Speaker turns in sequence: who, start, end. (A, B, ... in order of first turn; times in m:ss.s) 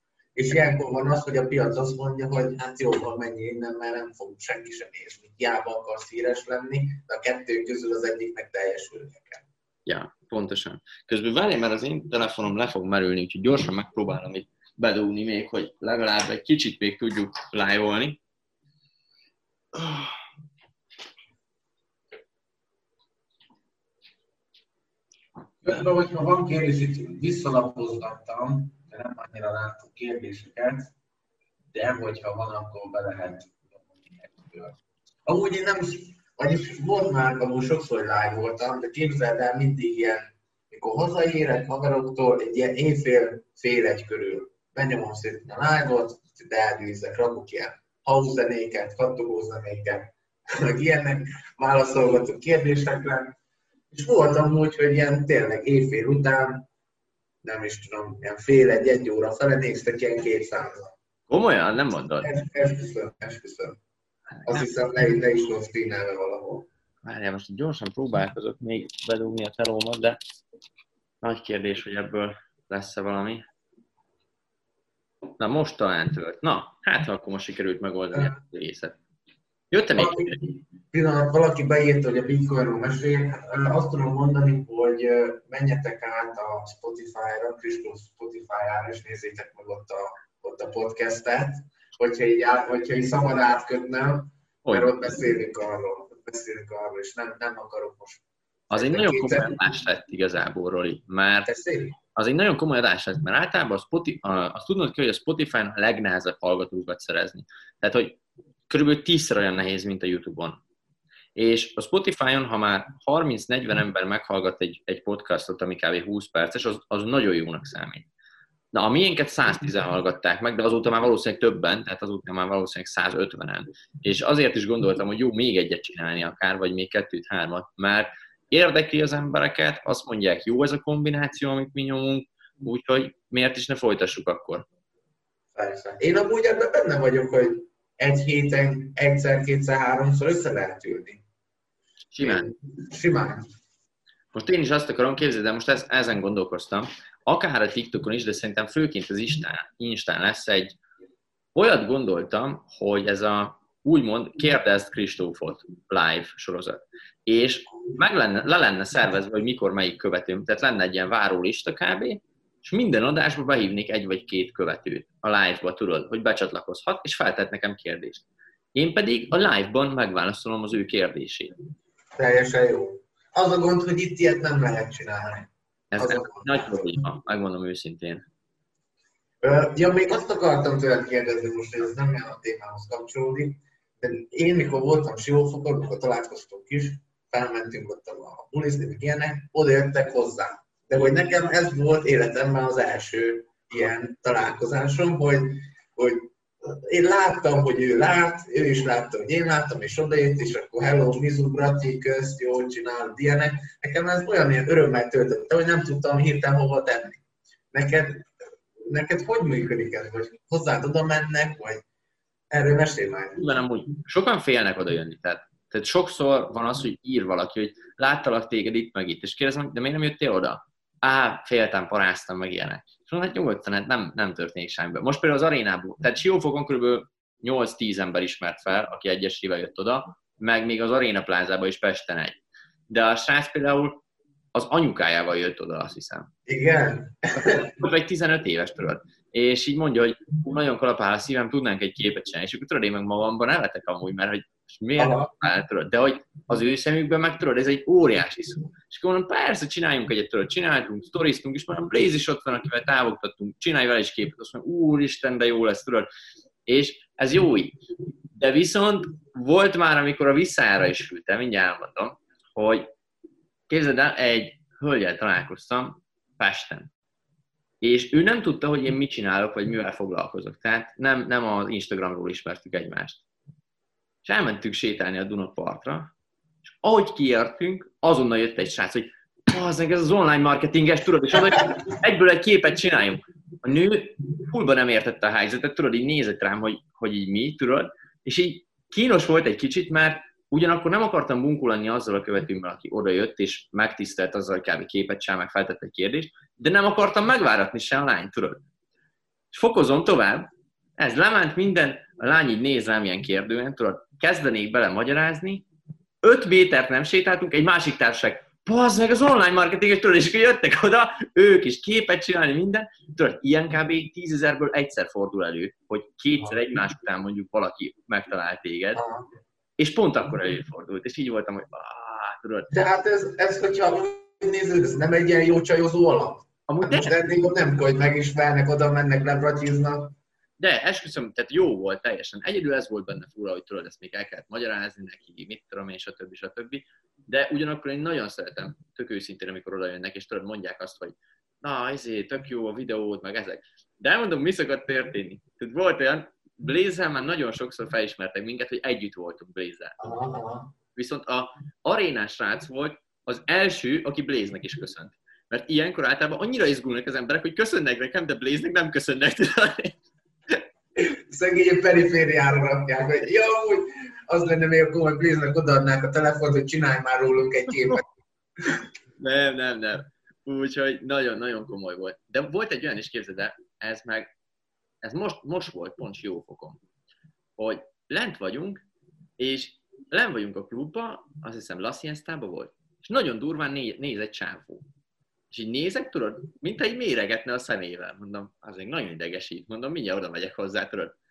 0:00.4-0:09.4 A
0:09.9-0:18.2 B
0:19.8-0:20.1 B
0:25.6-0:30.9 A
0:31.7-0:53.4 A
0:53.9-0:56.7 A
0:57.4-1:00.9 A
1:01.3-1:02.3 B
1:02.2-1:03.8 A
1:04.4-1:04.7 B
1:04.5-1:06.7 A
1:07.0-1:10.2 B
1:11.2-1:13.5 B
1:15.4-1:19.0 B
1:19.7-1:20.4 B
1:20.0-1:39.6 A
1:34.6-1:35.1 B
1:38.7-1:41.5 B
1:41.5-1:42.0 A
1:42.2-1:50.6 B
1:51.4-1:58.1 B
1:58.7-2:14.7 B
2:15.6-2:21.2 A
2:22.1-2:22.5 B
2:22.2-2:23.4 A
2:24.3-2:30.8 B
2:31.6-2:51.5 B
2:52.2-2:57.0 A
2:55.9-2:58.2 B
2:59.4-3:28.3 A
3:28.8-3:31.8 A
3:32.5-3:33.4 A
3:33.4-3:54.0 B
3:54.5-3:56.3 B
3:56.5-3:57.8 A
3:57.4-4:16.1 B
4:05.0-4:05.3 A
4:16.7-4:17.8 B
4:18.3-4:22.9 B
4:23.7-4:26.9 B
4:27.8-4:33.2 B
4:34.2-4:36.1 B
4:36.6-4:58.6 B
4:59.5-5:05.7 B
5:06.2-5:19.0 B
5:19.0-5:19.3 A
5:19.8-5:22.7 B
5:22.7-5:30.2 A
5:26.7-5:27.2 B
5:30.6-5:50.1 B
5:50.0-5:50.7 A
5:51.0-6:00.6 B
6:01.0-6:08.0 A
6:09.2-6:14.3 B
6:15.0-6:16.8 B
6:17.6-6:18.8 B
6:19.4-6:24.8 B
6:25.5-6:31.2 B